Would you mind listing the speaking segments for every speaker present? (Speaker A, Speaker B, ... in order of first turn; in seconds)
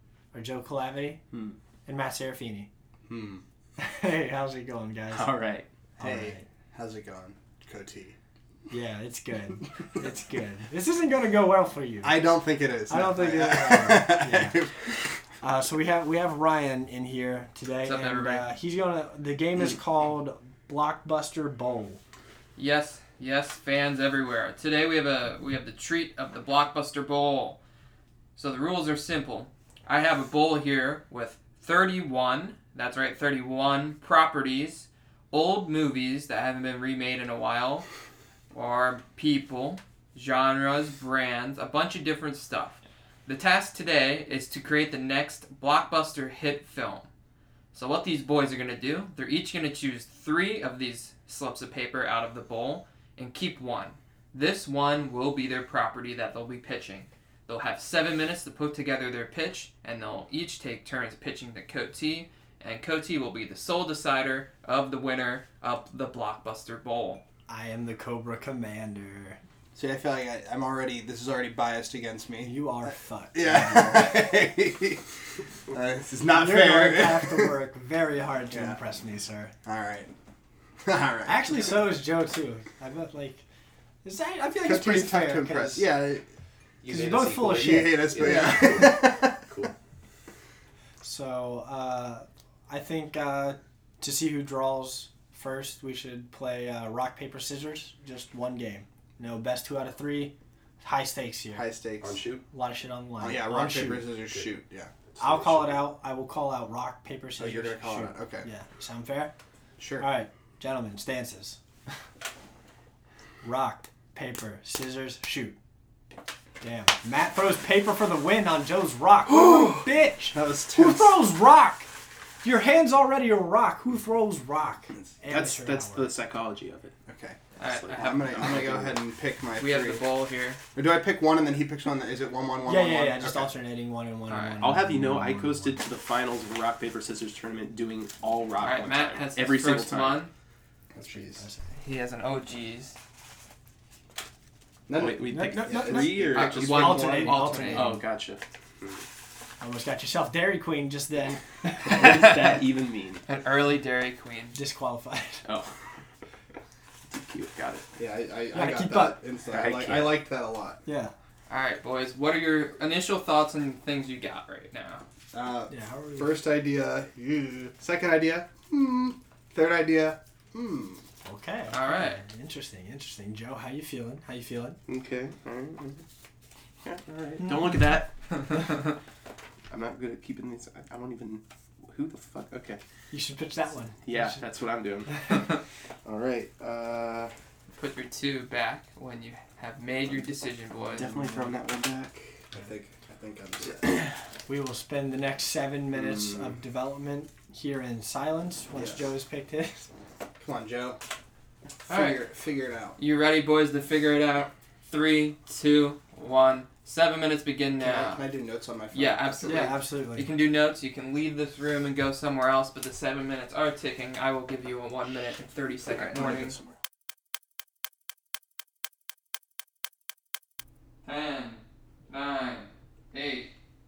Speaker A: 0.3-1.2, 1.9-2.7, 3.8-5.3, 6.0-6.5, 8.7-12.2, 12.9-14.7, 15.4-22.0, 67.5-69.4, 72.4-74.2, 76.3-79.5, 81.3-83.4, 84.0-85.8, 86.9-88.8, 91.0-101.6, 102.5-104.1, 105.2-109.3, 110.0-111.6, 113.4-115.6, 116.6-121.9, 122.4-126.1, 132.7-135.8, 141.0-141.8, 145.3-148.1, 149.6-152.1, 154.5-155.4, 158.5-159.2, 160.9-161.1, 165.7-166.4, 171.2-174.8, 183.1-184.4, 191.1-191.5, 194.5-199.9, 209.4-210.3
Speaker B: 1.3-1.6, 5.1-5.7, 86.8-89.7, 102.0-102.4, 105.2-105.7, 125.3-127.0, 127.6-129.0, 134.6-140.2, 145.0-149.1, 151.8-153.2, 155.4-155.8, 157.1-157.9, 159.5-160.2, 174.9-176.0, 176.8-178.6, 179.7-182.8, 184.0-187.3, 191.0-192.4, 195.9-196.6, 215.9-216.2
Speaker C: 3.1-3.4, 6.0-8.2, 12.0-14.9, 69.8-72.5, 73.3-75.0, 75.7-77.5, 78.5-78.8, 79.7-80.2, 80.8-81.8, 84.6-86.2, 87.7-89.4, 101.5-102.2, 103.2-104.9, 107.4-108.5, 109.8-110.1, 120.3-121.2, 127.1-127.4, 128.0-130.1, 130.8-133.5, 140.9-141.5, 144.9-147.1, 158.0-160.8, 165.3-171.0, 192.5-194.0, 198.8-199.1, 200.4-201.0, 201.9-203.0, 207.8-209.8
Speaker D: 17.8-18.5, 22.6-27.6, 28.4-37.9, 38.5-47.1, 47.7-67.2, 127.6-128.5, 129.6-130.6, 134.3-134.7, 138.6-140.3, 141.8-143.0, 146.3-147.9, 152.0-152.6, 153.3-154.6, 161.5-165.0, 171.7-172.2, 187.8-191.1, 201.9-202.2, 203.0-208.2, 208.9-216.6, 221.1-223.5